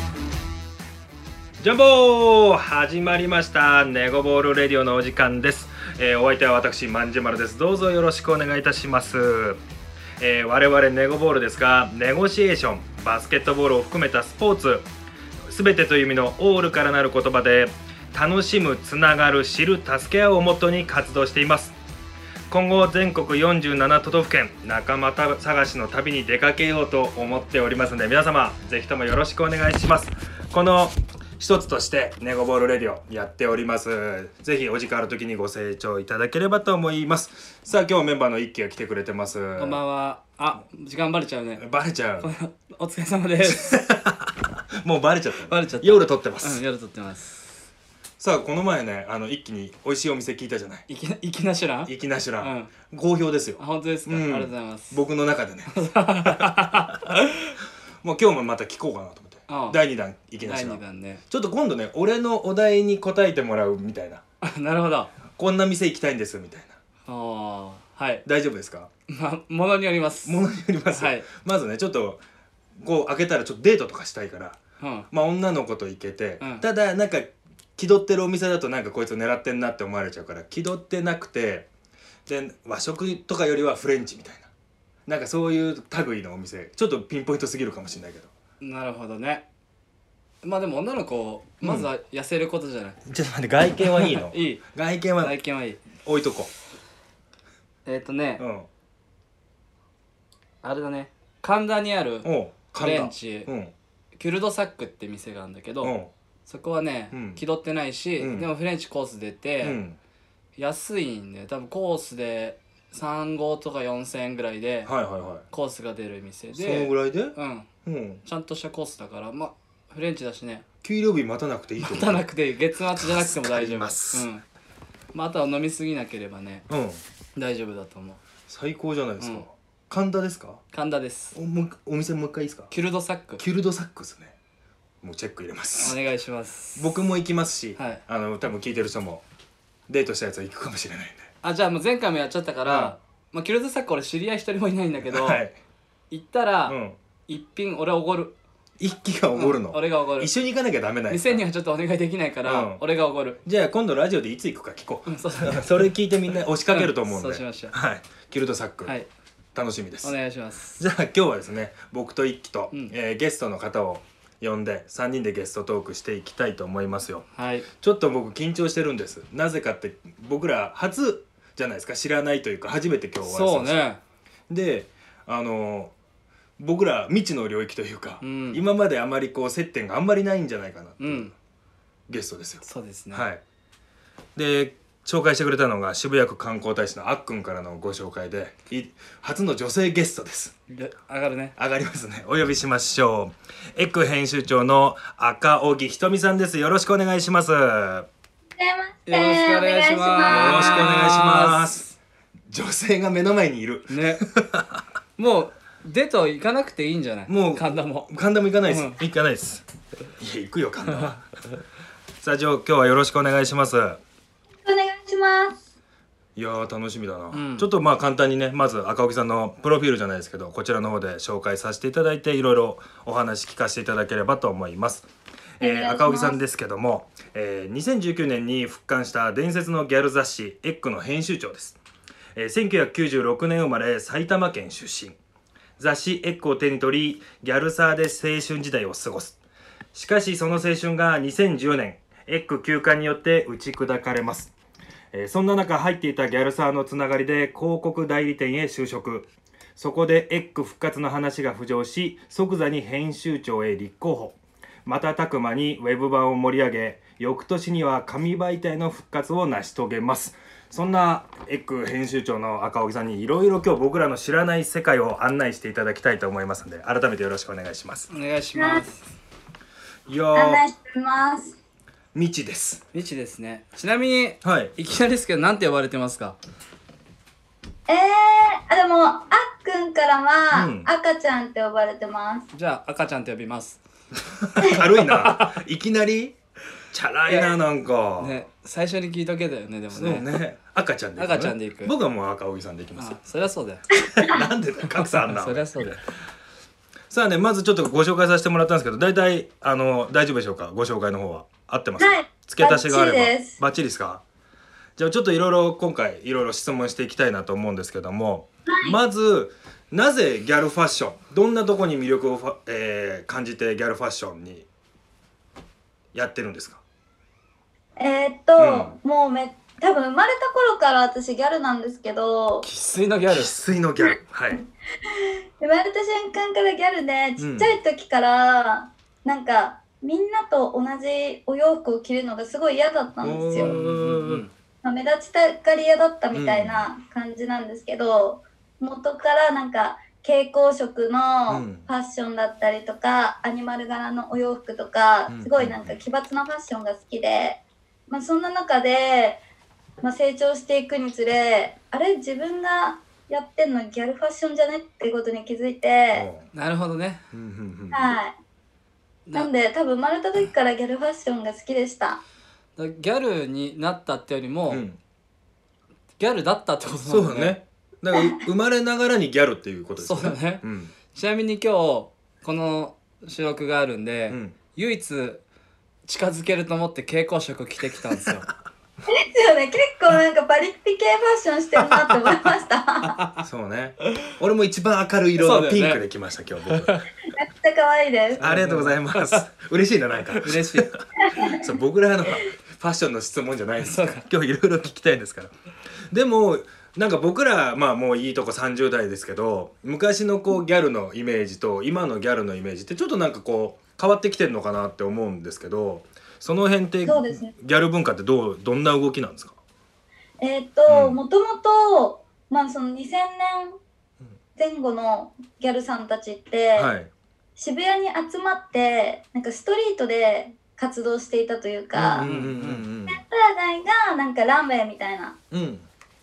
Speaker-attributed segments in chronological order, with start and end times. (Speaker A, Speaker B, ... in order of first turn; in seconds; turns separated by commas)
Speaker A: 1.6-9.6, Speaker A: 10.2-14.9, Speaker A: 15.5-21.8, Speaker A: 22.5-39.8, Speaker B: 39.6-41.6, Speaker A: 41.6-42.3, Speaker B: 42.2-43.8, Speaker A: 43.5-46.6, Speaker B: 45.5-47.6, Speaker A: 48.2-50.9, Speaker B: 50.9-52.7, Speaker A: 51.9-57.1, Speaker B: 53.6-55.0, Speaker B: 55.7-57.6, Speaker A: 58.0-64.2, Speaker B: 59.5-59.8, Speaker B: 60.4-61.2, Speaker B: 64.4-65.1, Speaker A: 65.3-66.8, Speaker B: 67.1-68.2, Speaker A: 68.2-68.9, Speaker B: 69.1-71.3, Speaker A: 70.2-72.2, Speaker A: 72.8-74.6, Speaker B: 74.8-75.1, Speaker A: 75.1-81.7, Speaker A: 82.3-84.5, Speaker A: 85.1-88.3, Speaker B: 88.6-89.5, Speaker B: 90.4-93.0, Speaker A: 91.6-91.9, Speaker A: 93.1-95.4, Speaker B: 94.0-94.7, Speaker B: 95.2-95.8, Speaker A: 96.0-96.5, Speaker B: 97.9-98.4, Speaker A: 98.4-98.7, Speaker B: 100.6-103.5, Speaker A: 102.2-103.7, Speaker B: 104.2-105.9, Speaker A: 105.8-106.1, Speaker B: 106.5-109.8, Speaker A: 107.1-107.4, Speaker A: 108.2-108.5, Speaker A: 109.6-110.0, Speaker B: 110.6-114.9, Speaker A: 114.9-115.5, Speaker B: 115.5-117.7, Speaker A: 116.6-118.2, Speaker B: 118.2-120.7, Speaker A: 120.8-122.3, Speaker B: 121.8-124.4, Speaker A: 123.0-124.3, Speaker B: 125.1-126.7, Speaker A: 126.7-127.0, Speaker B: 127.4-128.2, Speaker A: 128.5-130.6, Speaker B: 130.7-131.3, Speaker A: 131.3-132.7, Speaker B: 132.7-133.4, Speaker A: 133.4-134.3, Speaker A: 135.0-136.0, Speaker B: 135.8-136.9, Speaker A: 136.8-139.2, Speaker B: 137.8-138.0, Speaker A: 139.9-141.3, Speaker B: 141.4-145.4, Speaker A: 142.7-142.9, Speaker A: 145.1-145.6, Speaker B: 146.1-148.4, Speaker A: 146.7-147.0, Speaker A: 148.8-151.4, Speaker B: 149.3-150.3, Speaker B: 151.1-153.4, Speaker A: 152.5-152.8, Speaker A: 153.4-158.9, Speaker B: 155.1-155.7, Speaker B: 156.7-157.8, Speaker A: 159.6-160.2, Speaker B: 160.0-160.8, Speaker A: 160.8-173.9, Speaker B: 167.3-167.7, Speaker B: 173.2-174.0, Speaker A: 174.5-175.9, Speaker A: 176.6-181.3, Speaker B: 178.2-178.6, Speaker B: 181.0-181.3, Speaker A: 182.1-183.4, Speaker B: 182.6-183.3, Speaker A: 184.4-190.6, Speaker B: 190.7-191.6, Speaker A: 191.6-198.1, Speaker C: 198.6-200.9, Speaker B: 199.1-201.9, Speaker A: 200.3-201.9, Speaker A: 202.5-204.8, Speaker B: 203.9-204.3, Speaker B: 205.2-208.1, Speaker A: 207.3-209.6, Speaker B: 208.7-209.0, Speaker A: 210.2-211.2, Speaker B: 210.8-211.2, Speaker A: 212.2-214.0, Speaker C: 214.7-215.6, Speaker A: 216.4-225.1, Speaker B: 217.3-217.7, Speaker A: 225.6-231.8, Speaker C: 225.6-226.4, Speaker A: 232.3-235.2, Speaker A: 235.8-239.4, Speaker A: 239.9-244.5, Speaker A: 245.1-268.1, Speaker B: 268.1-269.0, Speaker C: 268.6-268.8, Speaker A: 270.1-270.6, Speaker C: 270.4-271.6, Speaker A: 272.1-272.8, Speaker B: 272.9-276.4, Speaker A: 274.4-274.8, Speaker C: 277.9-282.5, Speaker A: 280.5-280.9, Speaker B: 282.5-283.8, Speaker A: 284.1-286.4, Speaker B: 284.7-285.6, Speaker A: 286.9-288.4, Speaker B: 287.3-287.6, Speaker B: 288.2-290.3, Speaker A: 289.9-293.2, Speaker B: 291.2-292.0, Speaker B: 293.0-293.8, Speaker C: 294.1-294.4, Speaker A: 294.1-296.0, Speaker B: 294.8-296.0, Speaker A: 297.1-304.2, Speaker C: 302.0-303.6, Speaker A: 305.0-314.7, Speaker C: 308.7-309.0, Speaker A: 316.1-316.8, Speaker C: 318.0-322.7, Speaker A: 318.6-319.0, Speaker B: 322.6-323.6, Speaker A: 323.3-324.6, Speaker C: 324.0-324.6, Speaker C: 325.2-333.7, Speaker A: 327.4-327.7, Speaker A: 333.2-334.5, Speaker B: 333.6-334.5, Speaker C: 334.8-349.4, Speaker A: 336.3-336.9, Speaker A: 341.5-341.9, Speaker A: 345.3-346.0, Speaker C: 350.0-356.3, Speaker A: 356.1-356.5, Speaker B: 356.5-357.2, Speaker A: 357.3-358.1, Speaker C: 357.9-358.4, Speaker C: 359.3-362.2, Speaker B: 362.8-364.9, Speaker A: 364.7-365.0, Speaker B: 366.2-367.6, Speaker A: 367.1-370.9, Speaker B: 370.0-375.4, Speaker A: 374.3-374.6, Speaker B: 376.1-378.5, Speaker C: 379.1-383.2, Speaker A: 383.4-386.9, Speaker B: 385.4-386.0, Speaker B: 386.7-387.1, Speaker C: 387.3-388.4, Speaker B: 388.4-389.4, Speaker A: 388.4-395.5, Speaker B: 390.3-390.9, Speaker C: 391.2-391.6, Speaker B: 393.8-394.3, Speaker A: 396.1-409.6, Speaker C: 407.1-407.5, Speaker C: 410.4-413.8, Speaker A: 410.9-411.2, Speaker C: 414.6-416.9, Speaker A: 416.8-417.1, Speaker C: 417.6-422.3, Speaker A: 421.9-423.2, Speaker B: 422.1-422.9, Speaker C: 423.1-425.4, Speaker A: 425.5-425.9